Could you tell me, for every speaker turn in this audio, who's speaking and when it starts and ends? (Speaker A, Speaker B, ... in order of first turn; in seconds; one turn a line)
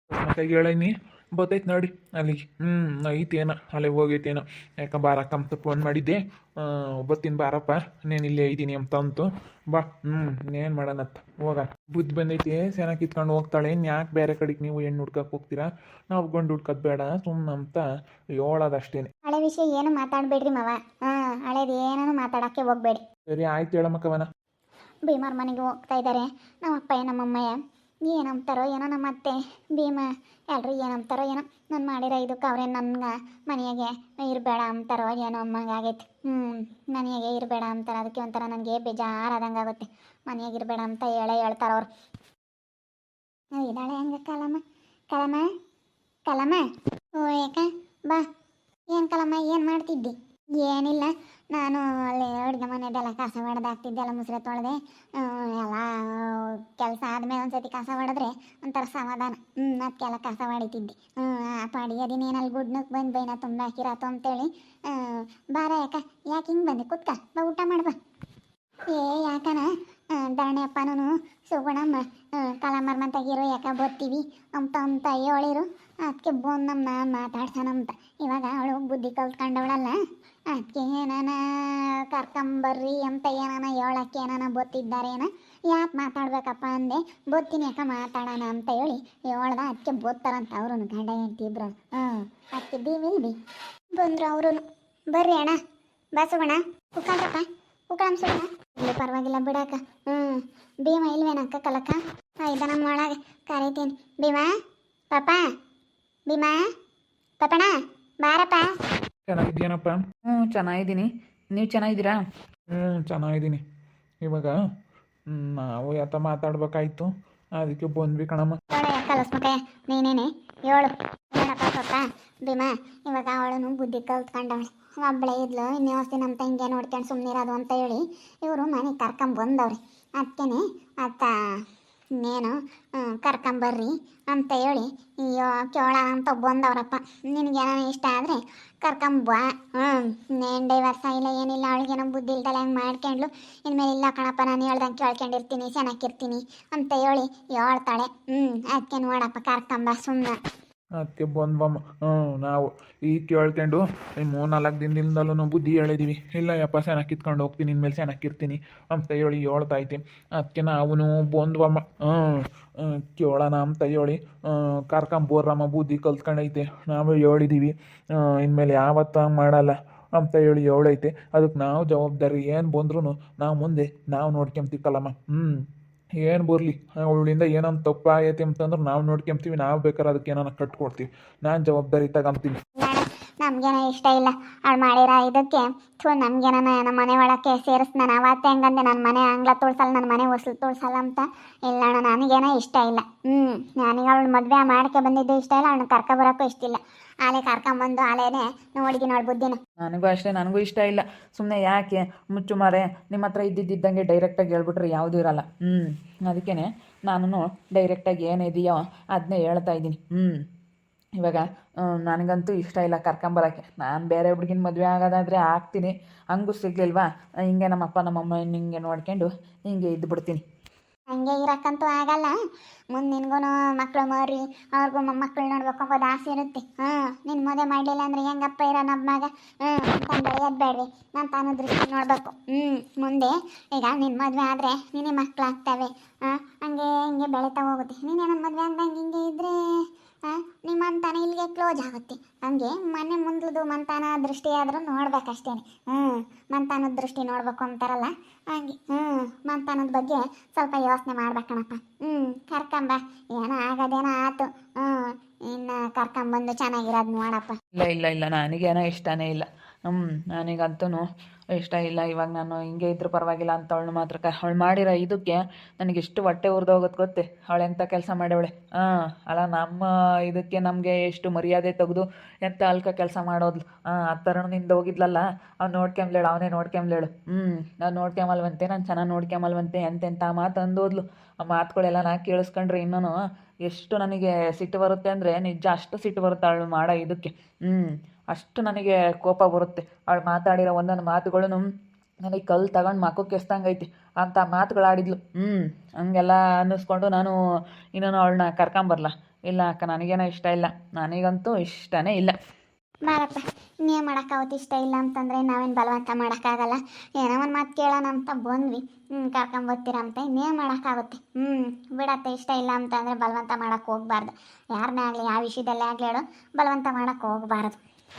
Speaker A: 0.1-19.1
Speaker B: 19.2-23.0
Speaker A: 23.3-24.3
Speaker B: 25.0-41.9
Speaker B: 43.5-45.5
Speaker B: 46.3-46.6
Speaker B: 47.1-48.2
Speaker B: 48.9-68.0
Speaker B: 68.9-80.0
Speaker B: 80.5-93.3
Speaker B: 93.9-95.6
Speaker B: 96.2-104.5
Speaker B: 105.1-105.4
Speaker B: 106.3-106.6
Speaker B: 107.4-108.7
Speaker A: 109.3-110.0
Speaker C: 110.2-112.2
Speaker A: 112.7-113.6
Speaker A: 114.2-114.5
Speaker A: 115.3-118.6
Speaker B: 118.7-131.6
Speaker B: 132.2-150.4
Speaker A: 151.0-175.5
Speaker A: 176.2-182.6
Speaker B: 182.8-199.6
Speaker C: 199.8-210.3
Speaker C: 211.2-220.4
Speaker B: 221.1-222.3
Speaker B: 222.9-239.6
Speaker B: 240.2-257.5
Speaker C: 257.8-261.0
Speaker C: 261.6-283.1
Speaker C: 283.7-291.6
Speaker C: 292.2-297.3
Speaker C: 297.9-302.3
Speaker B: 303.1-317.8